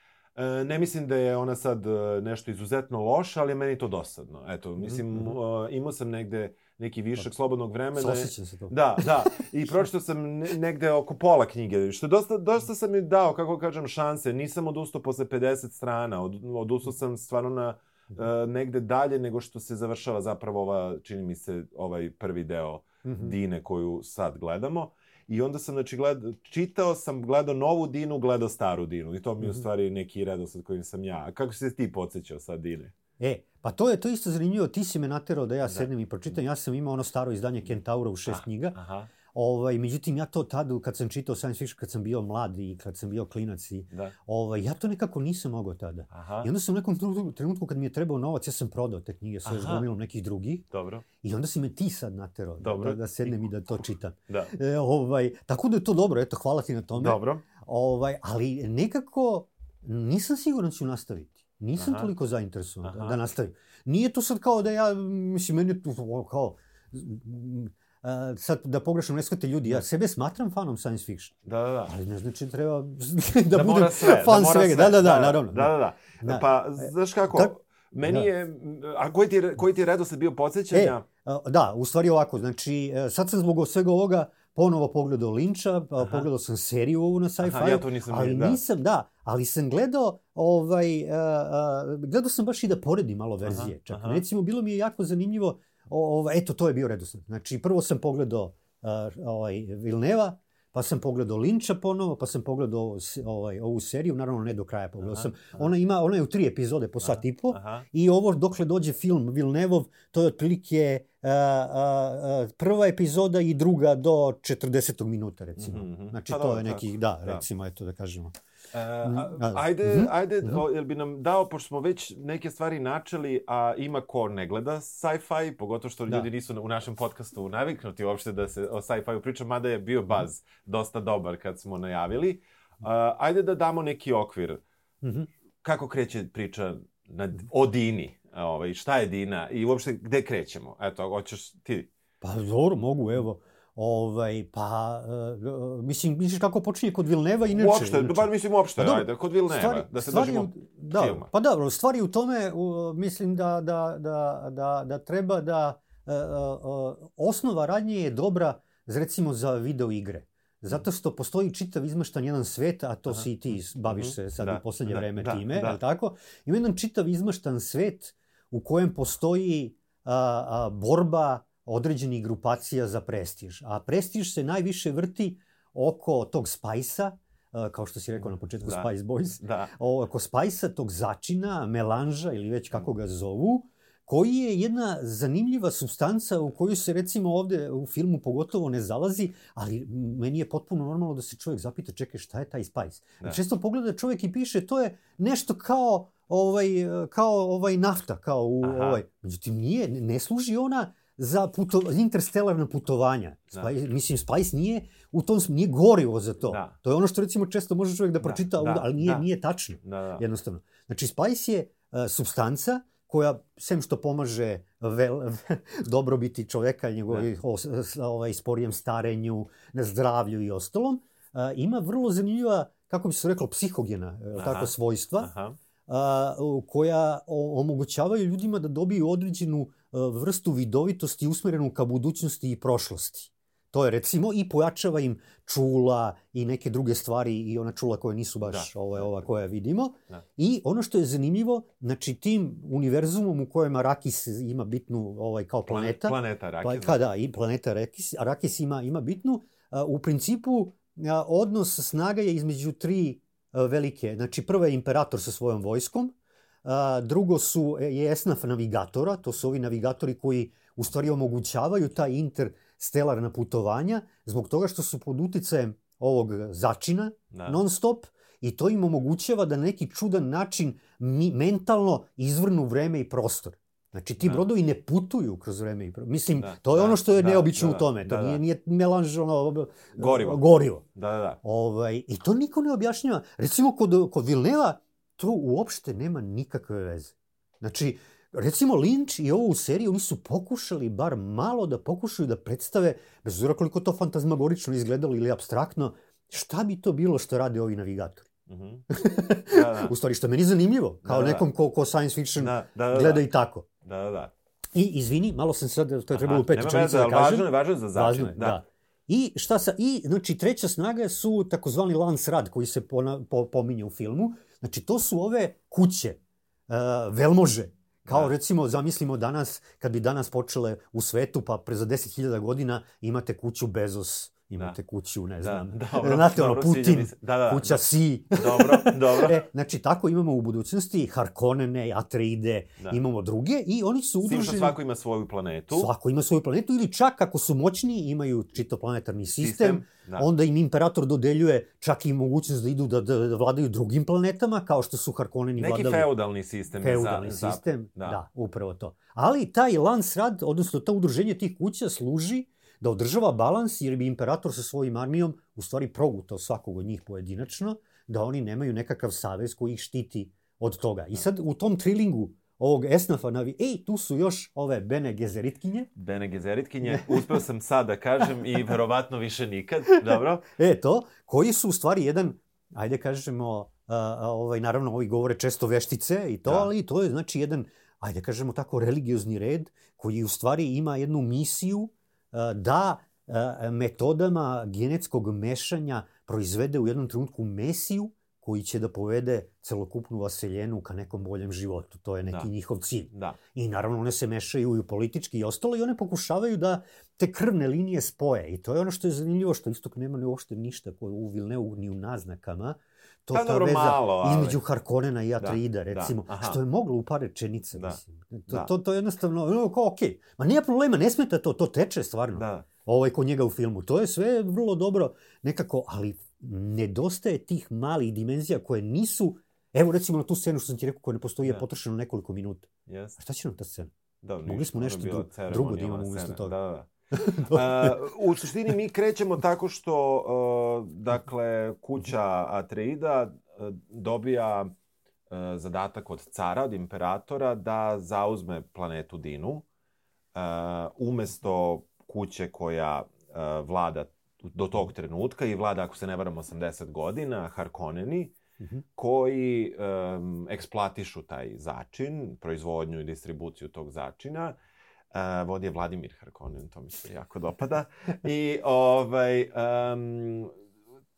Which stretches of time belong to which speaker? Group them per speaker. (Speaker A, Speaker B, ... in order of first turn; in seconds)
Speaker A: 0.4-32.9, 38.3-39.1, 46.1-46.5, 49.5-49.9, 50.7-51.0, 52.6-54.5, 57.0-57.4, 61.8-62.1, 62.8-63.2, 71.5-71.9, 73.5-81.0, 86.0-86.2, 87.4-88.6, 93.4-94.2, 105.0-105.7, 107.0-107.8, 115.6-117.5, 118.7-134.6, 135.6-141.9, 147.5-151.3, 163.9-165.8, 178.6-178.9, 179.4-179.7, 198.6-199.0, 206.5-206.8, 208.2-209.3, 209.8-210.2, 224.3-225.6, 238.4-238.7, 245.7-247.0, 267.3-267.6, 274.2-274.5, 276.4-278.4, 280.0-280.4, 280.9-281.4, 298.5-298.9, 299.5-299.9, 301.1-301.5, 302.4-303.3, 303.8-304.3, 306.1-308.6, 318.1-318.3, 325.4-327.8, 328.3-329.4, 334.2-335.9, 339.4-340.3, 345.6-348.2, 366.0-370.5, 376.4-376.7, 393.1-393.4, 403.3-404.6, 405.4-406.6, 407.8-408.7, 412.3-412.7, 422.9-423.2, 424.2-434.7, 435.3-439.6, 440.4-448.4, 449.0-454.6, 455.1-460.5
Speaker B: 4.8-5.3, 8.0-9.3, 23.0-23.3, 33.2-50.6, 51.2-71.3, 71.9-77.5, 78.0-78.3, 80.7-118.3, 119.0-120.6, 135.0-135.3, 142.2-225.3, 225.9-280.8, 281.4-298.3, 298.9-303.7, 304.7-316.2, 316.7-334.8, 335.7-346.1, 346.8-365.9, 366.8-367.4, 370.1-423.9, 424.4-426.6, 427.1-428.2